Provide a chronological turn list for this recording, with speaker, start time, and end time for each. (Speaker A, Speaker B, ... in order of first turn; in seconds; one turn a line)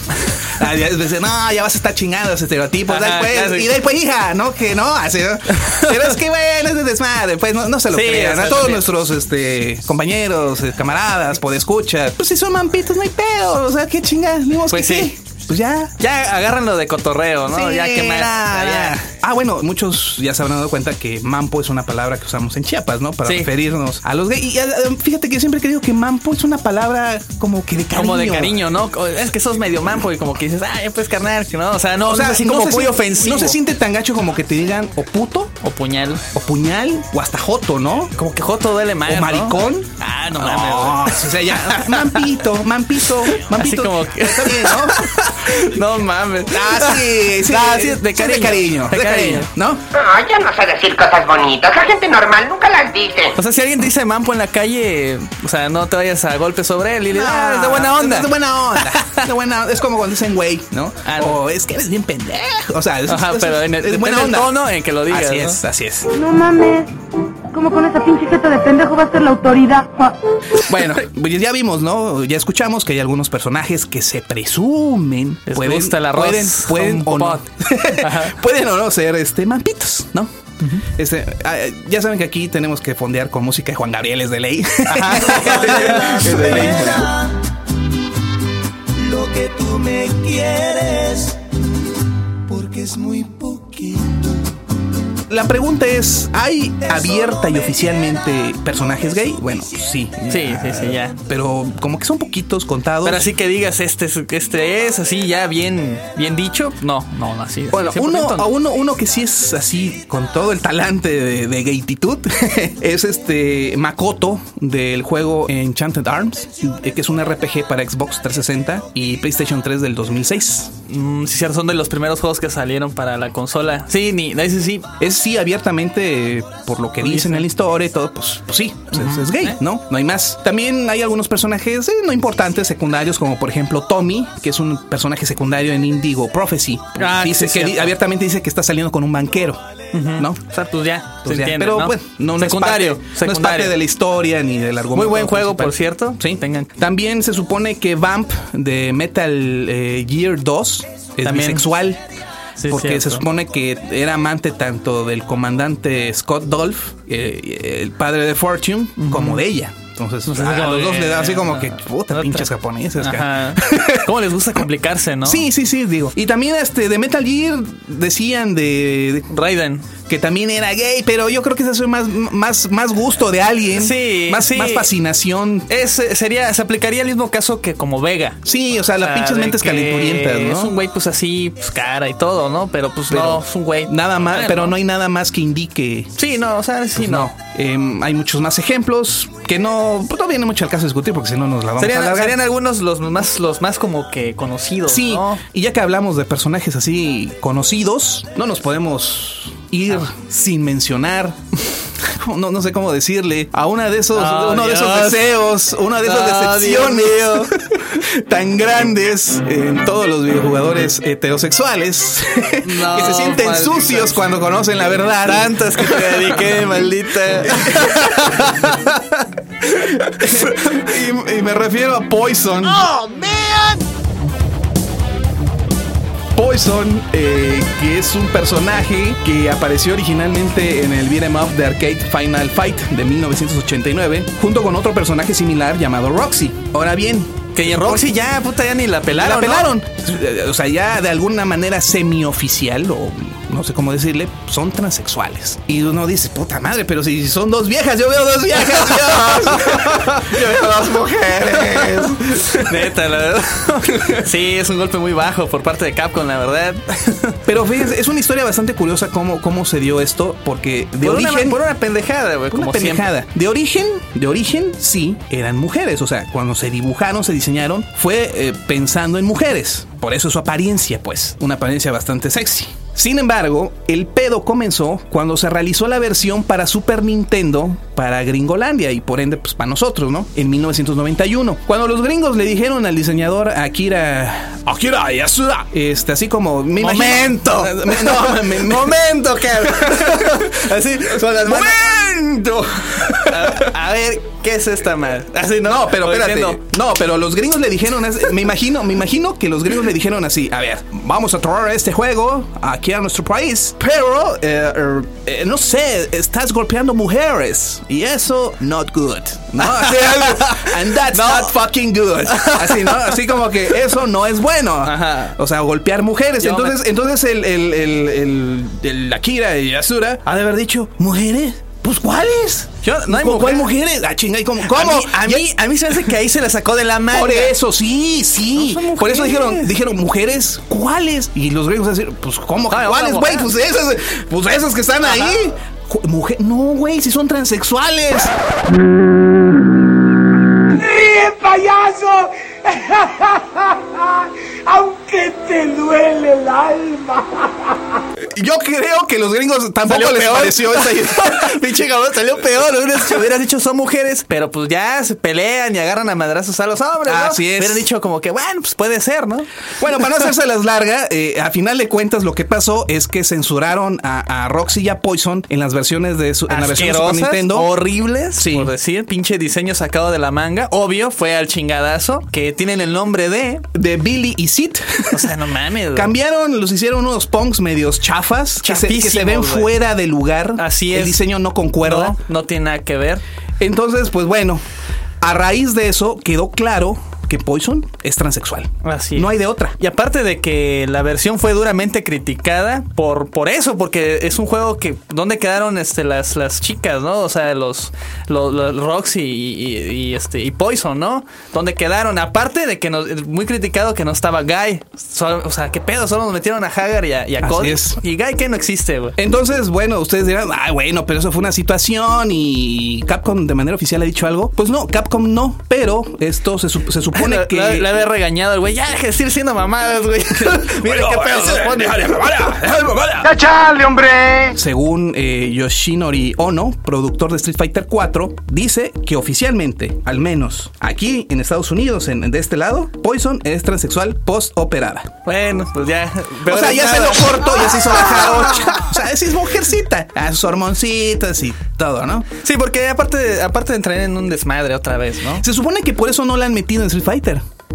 Speaker A: 0.4-15.9
Speaker B: 2.9-3.7
Speaker B: 5.6-6.0
Speaker B: 7.9-8.9
Speaker B: 14.7-15.1
Speaker B: 16.0-19.0
Speaker A: 17.5-28.6
Speaker B: 23.2-23.5
Speaker B: 27.9-33.6
Speaker A: 32.0-35.5
Speaker B: 35.6-36.3
Speaker A: 36.3-38.1
Speaker B: 38.2-42.2
Speaker A: 39.1-45.0
Speaker B: 43.4-49.5
Speaker A: 46.5-49.8
Speaker C: 49.9-53.4
Speaker B: 53.4-59.3
Speaker A: 57.1-66.1
Speaker B: 61.0-61.4
Speaker B: 63.1-65.6
Speaker D: 66.1-66.9
Speaker D: 67.5-70.2
Speaker A: 70.6-87.2
Speaker B: 75.5-78.3
Speaker B: 84.9-86.9
Speaker E: 86.8-87.1
Speaker A: 89.1-91.0
Speaker E: 90.0-91.0
Speaker A: 92.5-94.3
Speaker A: 95.3-103.3
Speaker B: 100.3-101.2
Speaker B: 103.0-108.5
Speaker A: 107.7-120.8
Speaker B: 120.9-124.9
Speaker A: 125.0-140.4
Speaker B: 127.0-127.4
Speaker B: 128.9-129.6
Speaker B: 137.0-137.9
Speaker B: 139.9-143.8
Speaker A: 141.2-152.0
Speaker B: 144.9-146.7
Speaker B: 151.2-151.7
Speaker B: 152.6-153.2
Speaker A: 152.7-164.1
Speaker B: 159.0-159.4
Speaker B: 160.3-162.5
Speaker B: 163.0-165.4
Speaker A: 165.2-169.3
Speaker B: 169.3-169.9
Speaker A: 170.1-175.7
Speaker B: 173.8-174.9
Speaker B: 175.7-178.4
Speaker A: 178.4-180.7
Speaker B: 179.0-184.8
Speaker A: 183.1-186.1
Speaker B: 186.2-187.3
Speaker A: 186.9-192.4
Speaker B: 191.8-195.4
Speaker A: 194.9-216.6
Speaker B: 204.1-205.3
Speaker B: 206.0-207.5
Speaker B: 212.6-214.3
Speaker B: 215.2-219.3
Speaker A: 217.4-218.1
Speaker A: 219.8-222.9
Speaker E: 222.6-223.8
Speaker A: 226.3-238.1
Speaker B: 237.6-239.7
Speaker A: 239.1-252.9
Speaker B: 248.7-250.8
Speaker B: 251.5-257.4
Speaker A: 253.9-254.2
Speaker A: 257.5-261.6
Speaker B: 261.0-263.1
Speaker A: 262.5-293.7
Speaker B: 286.8-292.1
Speaker B: 292.9-296.6
Speaker A: 295.6-325.9
Speaker B: 309.6-311.5
Speaker B: 312.3-313.1
Speaker B: 314.8-315.4
Speaker B: 316.4-316.8
Speaker B: 322.8-323.7
Speaker B: 324.6-327.5
Speaker A: 327.1-338.3
Speaker B: 328.6-329.7
Speaker B: 332.7-333.5
Speaker B: 335.0-335.4
Speaker E: 340.8-343.7
Speaker E: 344.7-347.5
Speaker A: 348.2-351.6
Speaker B: 349.9-360.2
Speaker A: 357.1-357.9
Speaker A: 359.8-367.7
Speaker B: 366.5-373.6
Speaker A: 368.4-368.7
Speaker A: 373.7-375.3
Speaker B: 375.1-376.1
Speaker A: 375.9-382.2
Speaker B: 378.6-379.7
Speaker B: 380.6-381.2
Speaker B: 381.8-383.2
Speaker A: 383.6-384.6
Speaker A: 385.2-389.8
Speaker B: 388.8-409.2
Speaker A: 407.4-408.0
Speaker A: 409.2-417.9
Speaker B: 417.1-422.1
Speaker A: 420.4-423.4
Speaker E: 423.4-424.4
Speaker A: 424.5-435.1
Speaker B: 435.3-438.9
Speaker A: 436.5-442.3
Speaker B: 442.4-445.4
Speaker A: 445.4-447.4